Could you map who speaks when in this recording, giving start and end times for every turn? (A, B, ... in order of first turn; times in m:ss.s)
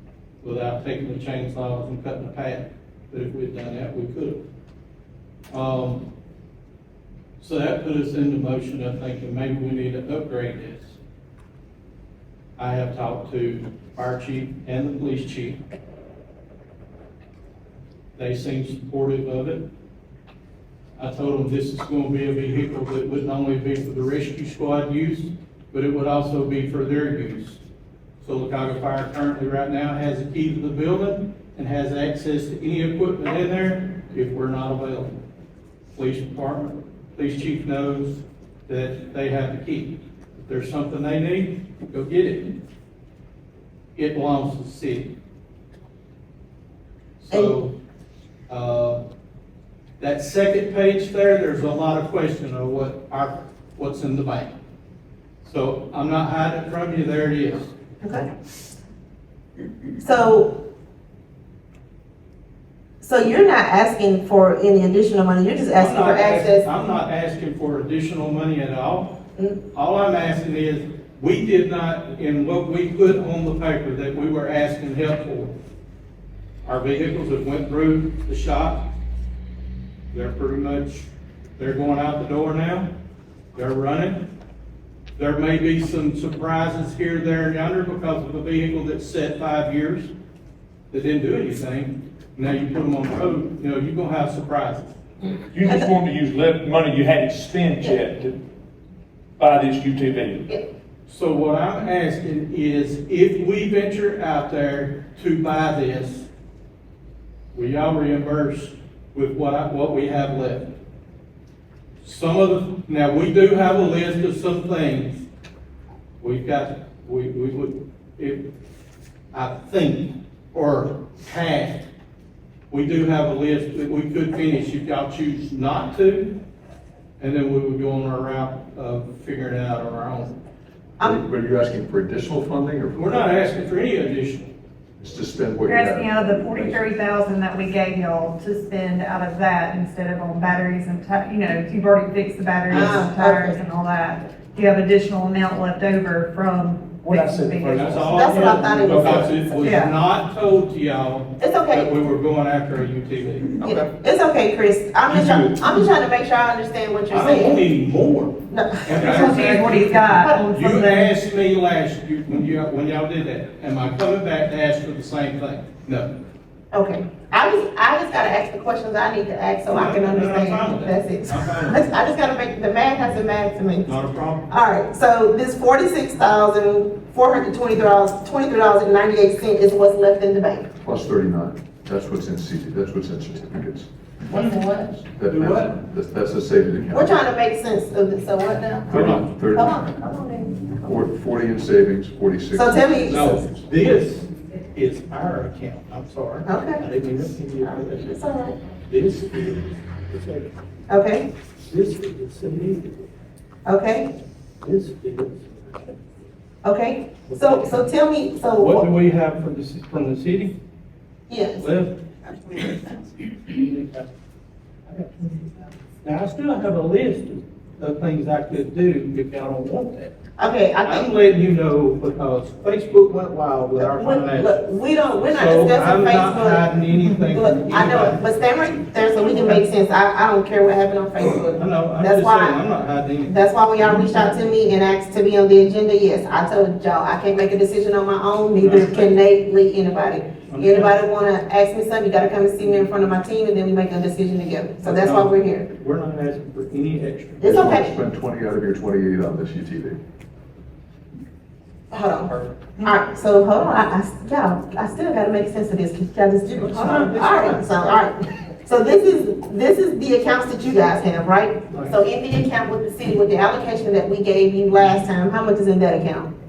0:00.4-0:04.4 A
0:05.5-0:06.1 A
0:07.4-0:11.0 A
0:12.6-0:15.6 A
0:18.2-0:19.6 A
0:21.0-0:27.6 A
0:28.2-0:35.2 A
0:35.9-0:42.6 A
0:44.0-0:45.1 A
0:47.2-0:47.8 A
0:48.5-0:49.0 A
0:50.0-0:54.5 A
0:55.4-0:57.7 A
0:58.0-0:58.3 B
1:00.0-1:00.6 B
1:03.0-1:06.6 B
1:05.8-1:09.2 A
1:09.7-1:15.5 A
1:16.6-1:18.9 A
1:20.1-1:22.9 A
1:23.5-1:24.3 A
1:25.2-1:30.1 A
1:30.9-1:34.9 A
1:35.5-1:38.4 C
1:39.4-1:40.5 C
1:41.0-1:46.3 A
1:47.5-1:50.7 A
1:52.0-1:55.2 A
1:56.2-1:58.5 A
1:59.3-2:01.8 A
2:02.7-2:06.4 A
2:07.2-2:10.3 A
2:11.0-2:13.5 D
2:12.9-2:14.5 A
2:15.0-2:16.8 D
2:15.6-2:28.0 E
2:22.7-2:23.6 B
2:22.7-2:23.0 A
2:27.0-2:29.3 C
2:27.7-2:33.5 A
2:28.0-2:29.6 B
2:29.6-2:29.9 E
2:31.4-2:31.9 B
2:33.6-2:37.6 B
2:35.1-2:35.7 C
2:37.1-2:46.1 A
2:38.5-2:39.5 B
2:38.9-2:41.1 E
2:40.1-2:40.4 B
2:46.7-2:53.9 B
2:49.7-2:51.9 A
2:53.8-2:54.5 A
2:54.5-3:00.7 B
3:00.8-3:03.9 D
3:04.3-3:04.9 B
3:04.3-3:05.7 A
3:05.1-3:07.2 D
3:06.9-3:10.7 B
3:08.9-3:09.8 D
3:08.9-3:09.3 A
3:10.8-3:13.6 D
3:12.5-3:13.4 B
3:13.0-3:18.2 A
3:16.4-3:16.8 B
3:17.6-3:18.6 B
3:18.9-3:20.5 A
3:20.9-3:21.3 B
3:21.7-3:23.0 A
3:23.6-3:24.1 B
3:24.6-3:25.8 A
3:26.6-3:28.8 B
3:27.3-3:27.8 A
3:28.6-3:30.6 A
3:31.3-3:31.7 B
3:31.6-3:34.1 A
3:34.9-3:35.3 A
3:36.0-3:40.1 A
3:40.4-3:41.1 B
3:40.8-3:44.6 A
3:43.8-3:46.6 B
3:45.3-3:48.2 A
3:47.3-3:52.6 B
3:49.2-3:49.6 A
3:51.5-3:53.3 A
3:53.2-4:05.7 B
3:53.9-3:54.3 A
3:58.6-3:59.2 A
4:00.5-4:00.9 A
4:04.8-4:07.6 A
4:07.4-4:07.9 B
4:07.4-4:10.0 D
4:11.9-4:26.3 B
4:12.2-4:12.8 A
4:16.6-4:17.7 A